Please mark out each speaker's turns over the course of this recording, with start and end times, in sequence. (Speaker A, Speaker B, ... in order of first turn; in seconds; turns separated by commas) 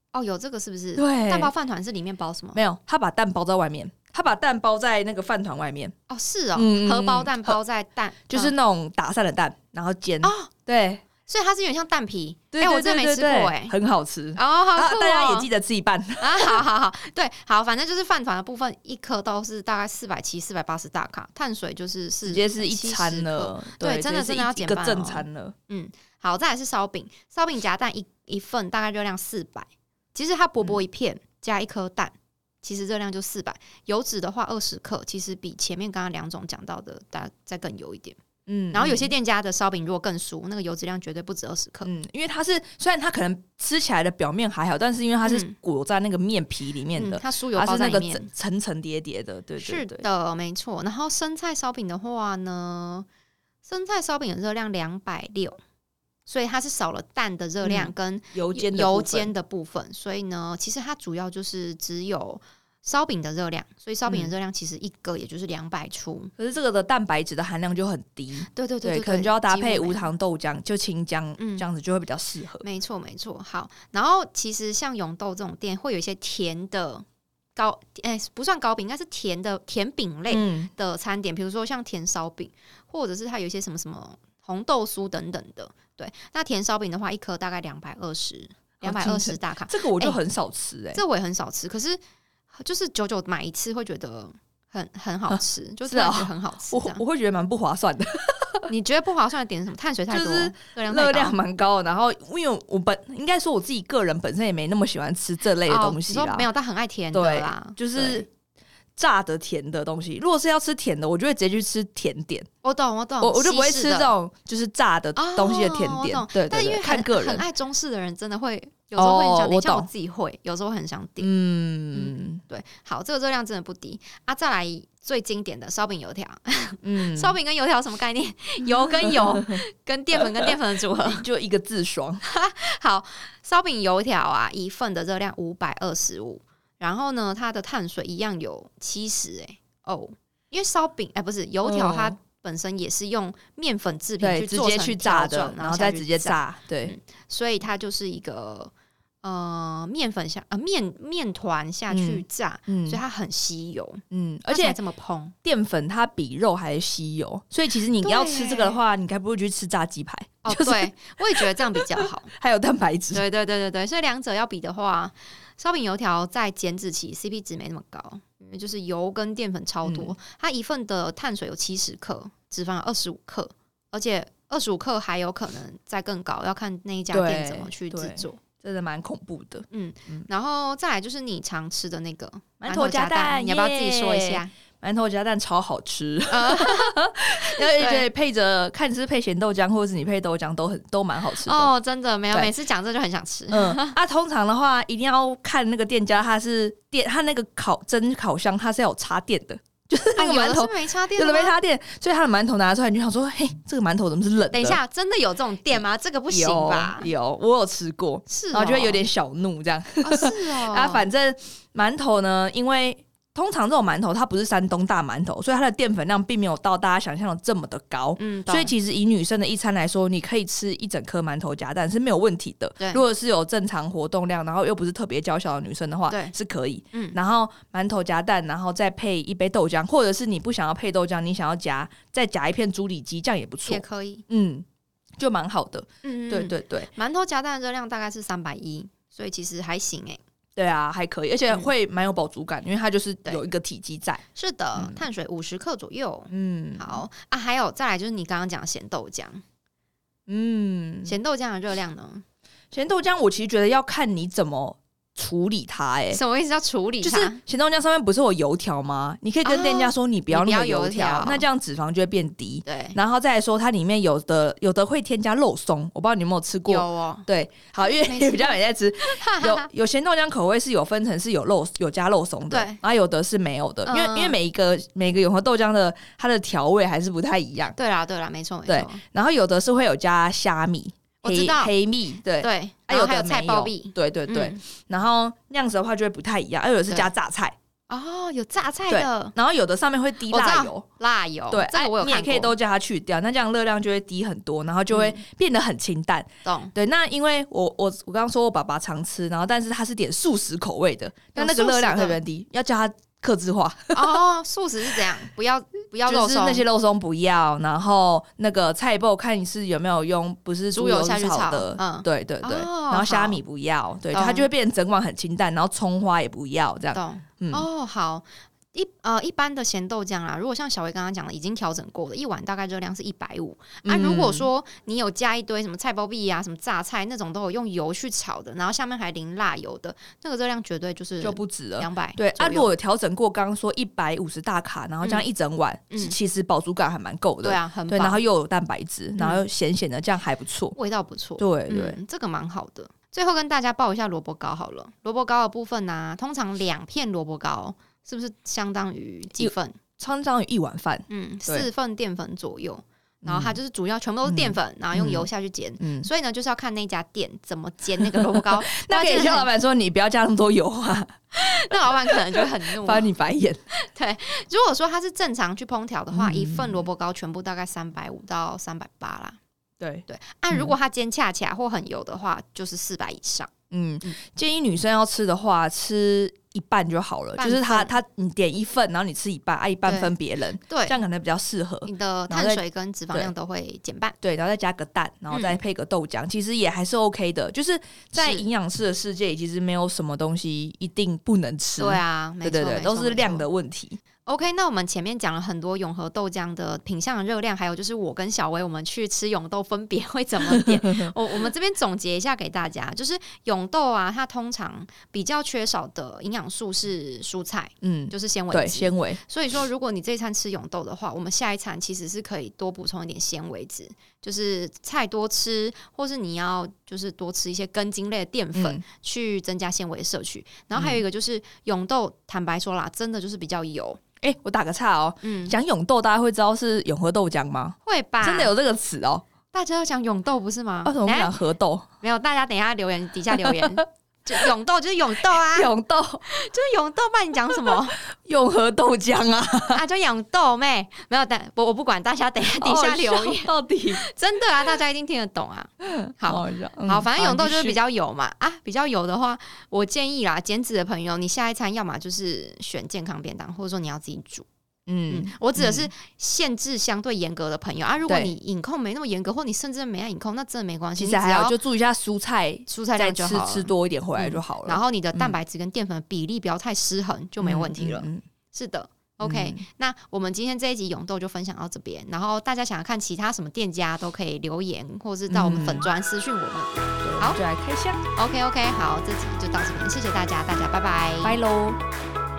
Speaker A: 0.1-2.6, Speaker B: 0.9-1.5, Speaker B: 2.5-5.9, Speaker A: 6.1-8.5, Speaker B: 6.5-7.6, Speaker B: 8.3-11.0, Speaker A: 10.2-10.5, Speaker A: 11.2-13.8, Speaker B: 12.5-16.6, Speaker A: 14.3-15.5, Speaker A: 16.2-38.2, Speaker B: 22.2-25.5, Speaker B: 38.5-39.1, Speaker A: 38.7-41.9, Speaker B: 41.8-50.0, Speaker A: 45.2-45.5, Speaker A: 46.9-48.3, Speaker A: 49.6-53.0, Speaker A: 53.6-55.6, Speaker A: 56.2-66.3, Speaker B: 57.6-59.3, Speaker B: 64.1-64.3, Speaker B: 66.4-72.6, Speaker A: 68.5-70.0, Speaker A: 71.4-71.7, Speaker A: 72.6-77.0, Speaker A: 77.5-90.2, Speaker B: 80.3-80.7, Speaker B: 88.8-91.0, Speaker A: 90.9-92.0, Speaker A: 92.5-97.0, Speaker B: 95.3-98.7, Speaker A: 98.7-101.3, Speaker B: 100.1-106.5, Speaker A: 105.7-108.2, Speaker B: 107.1-108.3, Speaker B: 109.0-112.5, Speaker A: 112.6-114.1, Speaker B: 113.2-117.4, Speaker A: 115.2-121.3, Speaker B: 119.0-119.9, Speaker B: 121.2-122.4, Speaker A: 121.9-131.2, Speaker B: 126.8-127.3, Speaker B: 129.0-129.6, Speaker B: 130.3-132.2, Speaker A: 132.2-148.7, Speaker B: 141.6-142.2, Speaker B: 144.2-146.9, Speaker A: 149.2-155.3, Speaker B: 151.9-153.0, Speaker B: 154.1-154.8, Speaker B: 155.4-163.2, Speaker A: 158.0-158.8, Speaker A: 160.4-162.3, Speaker A: 163.1-178.4, Speaker B: 169.8-170.1, Speaker B: 177.1-180.2, Speaker A: 179.7-184.5, Speaker B: 182.6-191.7, Speaker A: 186.3-188.1, Speaker A: 191.3-194.0, Speaker B: 193.5-204.8, Speaker A: 200.2-201.5, Speaker A: 204.5-207.1, Speaker B: 206.3-234.6, Speaker A: 208.3-209.1, Speaker A: 210.0-211.1, Speaker A: 218.2-218.7, Speaker A: 226.1-226.3, Speaker A: 233.7-234.2, Speaker B: 235.2-236.9, Speaker A: 236.0-240.2, Speaker B: 240.6-244.2, Speaker A: 244.3-249.4, Speaker B: 244.8-245.0, Speaker B: 246.3-247.0, Speaker B: 250.3-251.2, Speaker A: 251.0-252.2, Speaker B: 252.7-256.2, Speaker A: 256.1-257.4, Speaker B: 257.0-277.8, Speaker A: 259.4-261.4, Speaker A: 262.6-262.9, Speaker A: 266.6-267.3, Speaker A: 267.8-269.7, Speaker A: 272.5-272.8, Speaker A: 273.9-274.4, Speaker A: 277.7-279.0, Speaker B: 278.7-287.6, Speaker A: 281.2-281.7, Speaker A: 282.4-284.6, Speaker A: 287.9-289.3, Speaker B: 288.9-290.8, Speaker A: 290.3-292.5, Speaker B: 291.5-304.2, Speaker A: 294.9-295.2, Speaker A: 296.4-296.7, Speaker A: 301.3-302.2, Speaker A: 303.9-306.6, Speaker B: 306.1-317.7, Speaker A: 310.7-313.4, Speaker A: 314.1-314.5, Speaker A: 316.9-332.7, Speaker B: 323.8-324.5, Speaker B: 331.2-340.8, Speaker A: 335.9-336.1, Speaker A: 337.4-338.2, Speaker A: 340.7-349.8, Speaker B: 341.4-342.0, Speaker B: 349.4-351.7, Speaker A: 351.1-359.5, Speaker B: 353.2-353.6, Speaker B: 354.2-355.3, Speaker B: 355.8-356.1, Speaker B: 358.0-361.1, Speaker A: 361.3-363.1, Speaker B: 361.7-363.6, Speaker A: 363.8-369.4, Speaker B: 366.1-366.9, Speaker B: 369.8-370.7, Speaker A: 370.1-373.5, Speaker B: 373.7-383.3, Speaker A: 377.4-377.9, Speaker A: 379.9-380.1, Speaker A: 380.7-381.0, Speaker A: 381.9-384.1, Speaker B: 384.2-394.0, Speaker A: 385.3-385.6, Speaker A: 388.1-388.4, Speaker A: 391.8-393.5, Speaker A: 394.2-424.0, Speaker B: 400.5-401.1, Speaker B: 407.8-409.2, Speaker B: 418.5-418.8, Speaker B: 420.7-421.0, Speaker B: 424.2-429.2, Speaker A: 425.2-425.6, Speaker A: 427.8-428.5, Speaker A: 429.5-431.4, Speaker B: 430.8-431.9, Speaker A: 432.0-435.7, Speaker B: 435.4-436.2, Speaker A: 436.3-438.0, Speaker B: 438.0-439.8, Speaker A: 439.7-454.5, Speaker B: 442.6-444.0, Speaker B: 445.8-447.8, Speaker B: 454.9-455.9, Speaker A: 455.1-461.6, Speaker B: 458.1-458.3, Speaker B: 461.0-465.4, Speaker A: 462.7-477.4, Speaker B: 467.4-468.2, Speaker B: 469.2-469.6, Speaker B: 475.3-475.9, Speaker B: 477.0-478.0, Speaker A: 478.1-481.4, Speaker B: 481.2-481.8